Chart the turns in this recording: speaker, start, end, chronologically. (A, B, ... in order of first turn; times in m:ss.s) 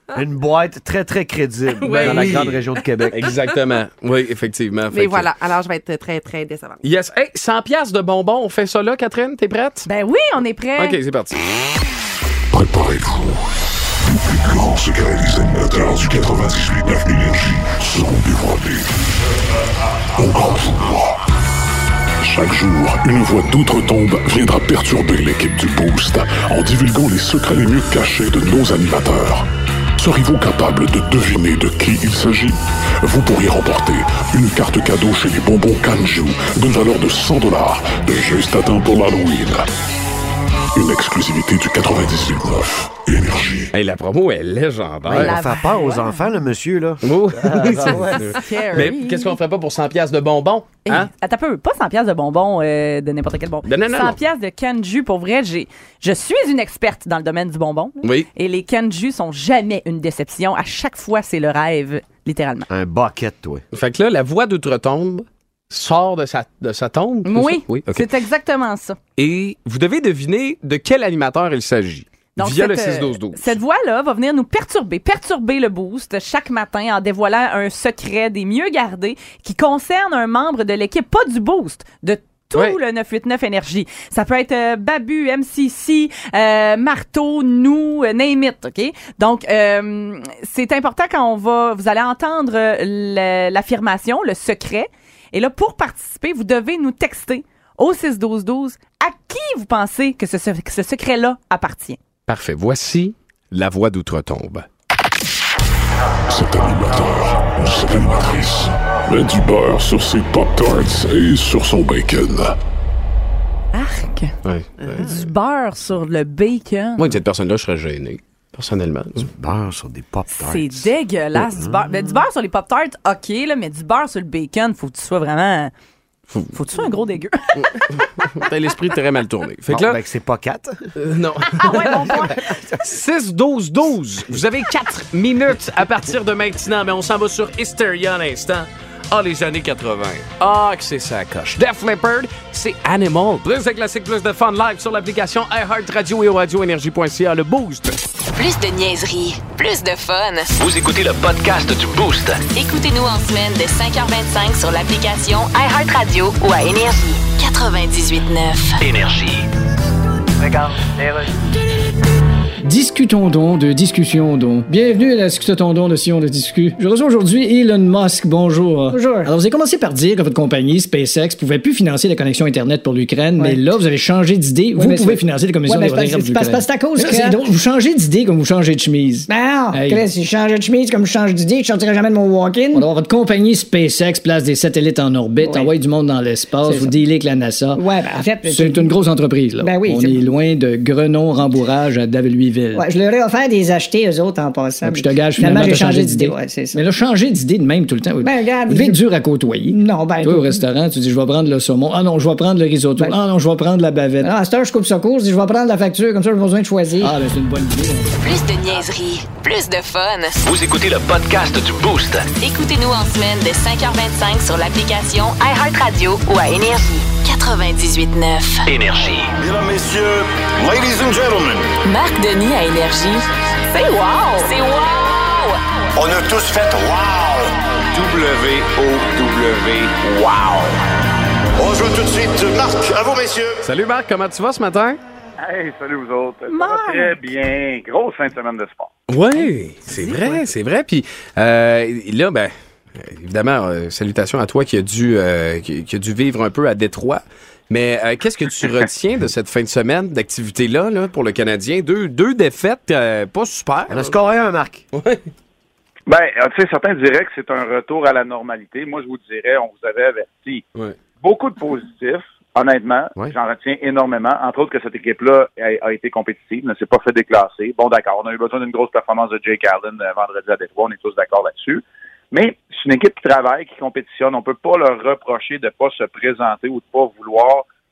0:00.1-0:03.3 A
0:01.8-0:03.6 B
0:01.9-0:05.3 C
0:04.9-0:06.8 B
0:06.8-0:09.9 C
0:09.9-0:11.0 D
0:10.8-0:11.4 C
0:12.5-0:13.4 E
0:14.1-0:19.0 E
0:20.2-0:21.2 E
0:22.2-0:29.5 E
0:30.0-0:39.7 E
0:40.8-0:43.7 E
0:43.7-0:45.4 C
0:45.0-0:48.3 A
0:45.1-0:46.1 D
0:47.0-0:51.1 C
0:47.8-0:49.4 D
0:50.9-1:02.7 D
0:53.7-0:54.2 C
0:58.0-0:58.3 C
1:02.7-1:03.6 A
1:03.7-1:08.1 C
1:07.2-1:09.0 D
1:09.2-1:13.6 C
1:12.4-1:42.0 D
1:42.3-1:44.7 C
1:46.3-1:52.5 E
1:53.7-1:57.2 D
1:54.4-1:55.2 C
1:57.0-1:59.3 C
1:59.3-2:01.8 A
2:00.3-2:05.7 D
2:06.3-2:06.6 C
2:06.5-2:07.8 D
2:07.6-2:10.0 C
2:09.7-2:10.9 A
2:11.0-2:12.2 C
2:11.6-2:12.5 D
2:12.1-2:12.9 A
2:12.8-2:28.0 C
2:28.4-2:30.5 F
2:30.6-2:32.5 G
2:32.5-2:38.8 F
2:38.8-2:39.5 G
2:42.6-3:00.0 H
2:48.9-2:49.3 I
2:53.4-2:53.7 I
2:54.8-2:57.4 I
2:59.3-3:02.9 I
3:02.7-3:07.8 H
3:05.4-3:05.7 I
3:06.6-3:07.0 I
3:07.8-3:08.9 I
3:08.4-3:12.9 H
3:09.6-3:10.2 I
3:12.7-3:16.8 I
3:14.8-3:24.3 H
3:18.2-3:19.0 I
3:19.7-3:20.6 I
3:24.2-3:27.2 I
3:27.0-3:28.1 H
3:28.2-3:30.4 F
3:30.4-3:32.3 G
3:32.4-3:38.7 F
3:38.7-3:39.3 G
3:39.4-3:41.7 J
3:41.9-3:44.5 D
3:44.4-3:45.6 F
3:46.0-3:50.7 J
3:51.6-3:53.6 J
3:53.6-3:55.0 C
3:55.4-3:58.9 K
3:56.5-3:57.2 D
3:59.1-4:14.2 C
3:59.9-4:00.4 D
4:13.9-4:14.8 A
4:14.9-4:15.2 C
4:16.1-4:20.6 K
4:21.2-4:37.6 K